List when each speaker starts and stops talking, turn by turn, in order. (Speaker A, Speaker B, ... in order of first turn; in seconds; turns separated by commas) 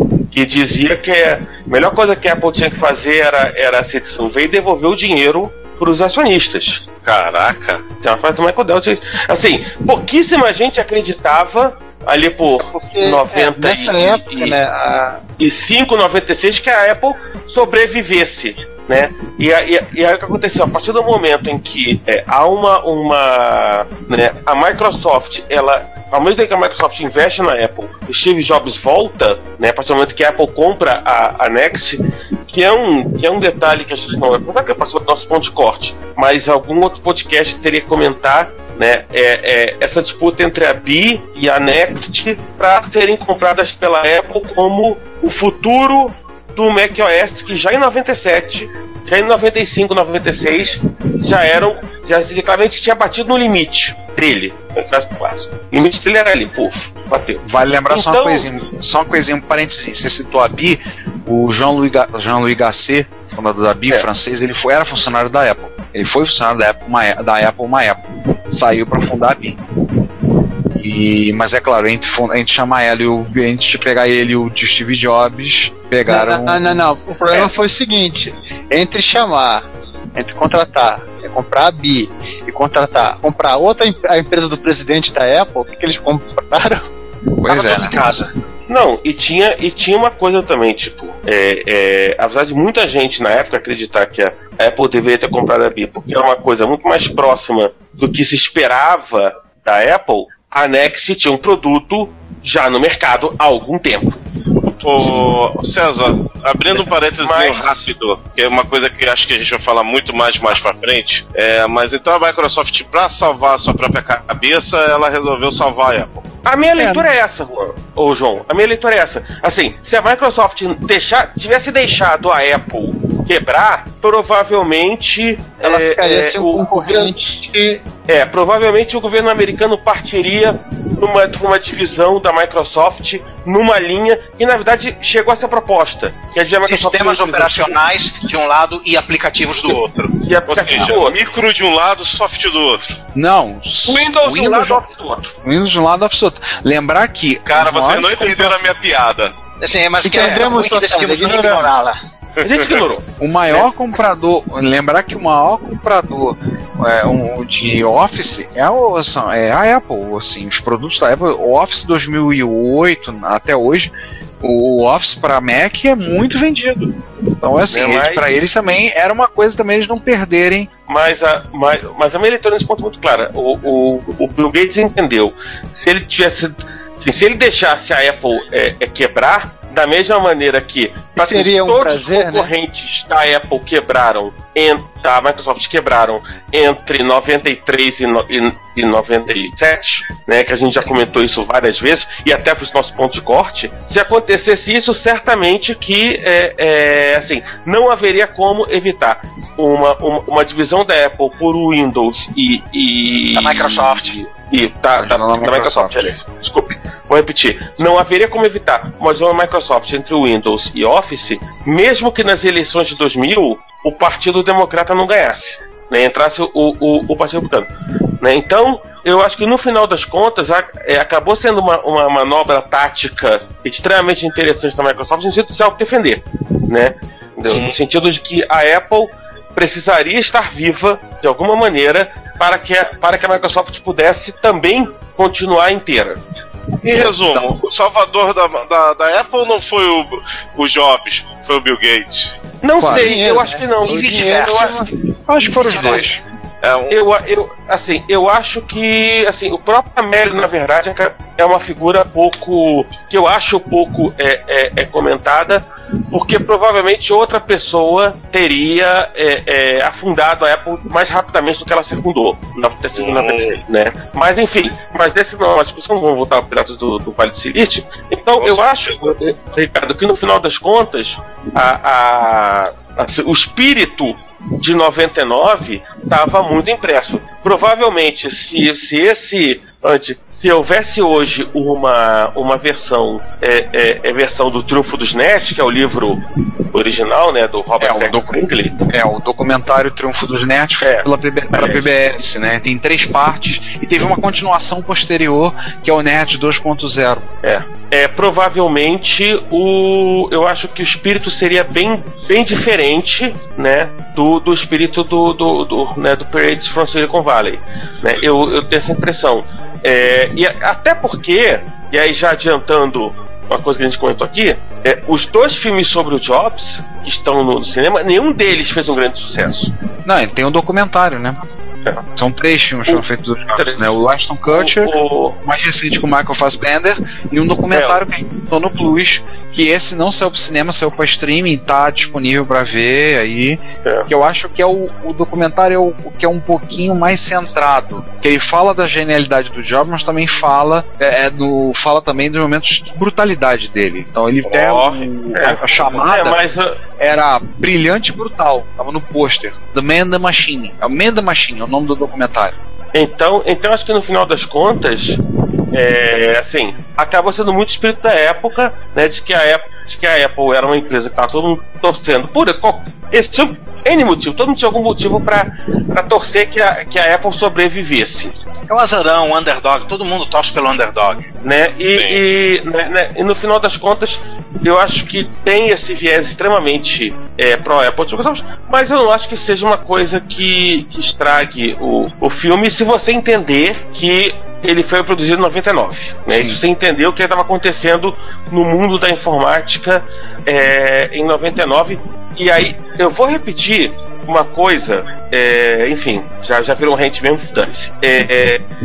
Speaker A: 0.3-6.8, Speaker B: 7.0-7.8, Speaker A: 8.0-14.6, Speaker C: 12.7-15.2, Speaker A: 15.4-58.5, Speaker D: 57.4-69.6, Speaker D: 70.7-76.8, Speaker C: 76.1-86.8, Speaker D: 87.4-88.0, Speaker E: 87.5-88.3, Speaker A: 88.7-104.2, Speaker B: 104.8-116.3, Speaker D: 105.0-105.3, Speaker A: 106.8-107.8, Speaker A: 116.5-127.1, Speaker D: 116.8-117.1, Speaker C: 125.6-127.8, Speaker A: 128.1-137.8, Speaker E: 136.6-140.9, Speaker A: 140.2-141.2, Speaker B: 140.5-142.9, Speaker D: 143.1-144.8, Speaker A: 143.9-145.3, Speaker D: 145.4-148.5, Speaker B: 147.5-149.3, Speaker E: 149.6-152.0, Speaker C: 150.0-151.7, Speaker B: 152.4-152.8, Speaker A: 152.4-153.7, Speaker D: 153.2-163.9, Speaker D: 164.4-170.7, Speaker A: 167.7-168.3, Speaker A: 170.9-217.7, Speaker C: 181.2-182.5, Speaker E: 203.3-204.2, Speaker D: 205.0-206.1, Speaker A: 218.2-236.2, Speaker B: 236.8-242.3, Speaker A: 242.6-244.8, Speaker D: 242.8-243.1, Speaker C: 242.9-244.9, Speaker E: 243.8-244.9, Speaker D: 245.3-246.2, Speaker E: 245.6-246.1, Speaker A: 245.7-246.1, Speaker B: 246.6-247.0, Speaker A: 246.9-288.8, Speaker B: 262.9-263.6, Speaker B: 268.4-269.1, Speaker D: 287.8-297.3, Speaker A: 290.8-291.9, Speaker A: 297.4-319.7, Speaker D: 320.1-321.4, Speaker D: 322.1-346.4, Speaker A: 322.9-325.4, Speaker A: 327.7-328.0, Speaker B: 344.5-345.0, Speaker A: 345.3-346.8, Speaker D: 347.0-352.6, Speaker A: 352.9-355.2, Speaker A: 355.7-368.4, Speaker E: 368.7-371.3, Speaker A: 371.4-398.6, Speaker B: 371.9-372.2, Speaker D: 386.3-386.6